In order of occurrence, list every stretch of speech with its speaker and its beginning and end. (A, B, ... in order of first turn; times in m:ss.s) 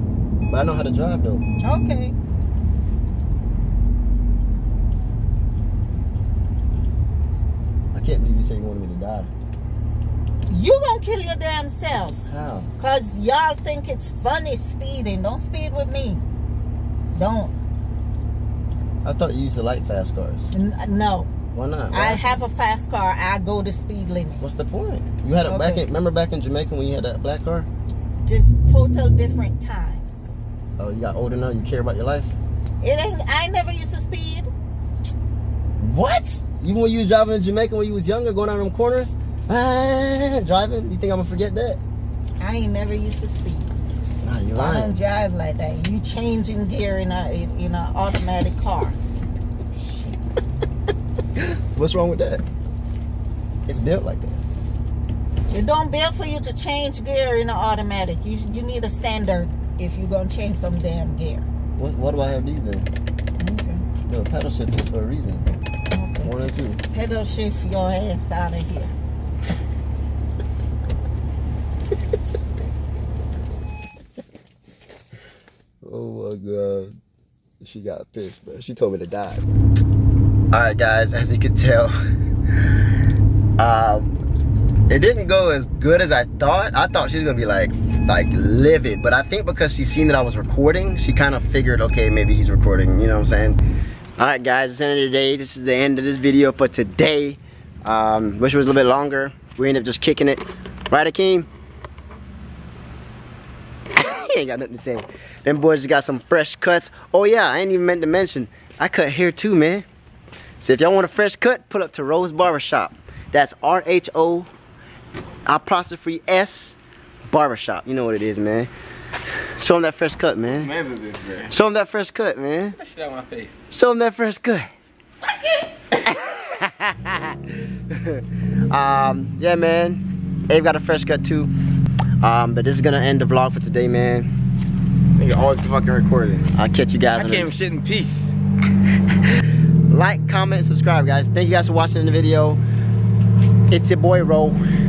0:00.5-0:01.4 A
0:01.6-0:02.2 B
0:07.9-0:09.3 A
0:10.5-0:12.2 B
0:12.3-0:12.7 A
0:12.8-0:16.2 B
0:17.1-0:17.6 B
0:19.0-0:20.5 A
0:20.5-0:21.3 B
0:21.5-0:22.2 A
0:21.9-0:24.4 B
0:24.4-0:27.7 A
0:25.5-0:25.8 B
0:28.2-0:30.3 B
0:30.8-0:32.4 A
0:32.8-0:34.5 B
0:35.8-0:41.8 A
0:42.4-0:43.7 B
0:44.2-0:45.0 A
0:44.6-0:49.0 B
0:51.4-0:52.4 A
0:53.7-0:54.4 A
0:55.5-1:01.5 B
1:01.8-1:02.9 A
1:03.4-1:03.8 B
1:04.1-1:05.5 A
1:05.9-1:08.9 B
1:06.2-1:06.8 A
1:15.8-1:17.0 A
1:17.6-1:19.4 A
1:20.5-1:22.0 A
1:23.6-1:24.2 A
1:24.9-1:33.6 A
1:34.2-1:41.5 A
1:43.9-1:49.8 A
1:50.6-1:54.5 A
1:55.5-1:56.8 A
1:57.3-1:58.7 A
1:59.6-2:00.8 A
2:00.6-2:01.5 C
2:01.5-2:02.8 A
2:02.8-2:03.6 C
2:03.7-2:04.7 A
2:05.9-2:07.4 A
2:07.9-2:11.5 A
2:12.2-2:14.3 A
2:15.2-2:17.5 A
2:17.1-2:18.4 C
2:19.9-2:22.6 A
2:23.7-2:24.6 A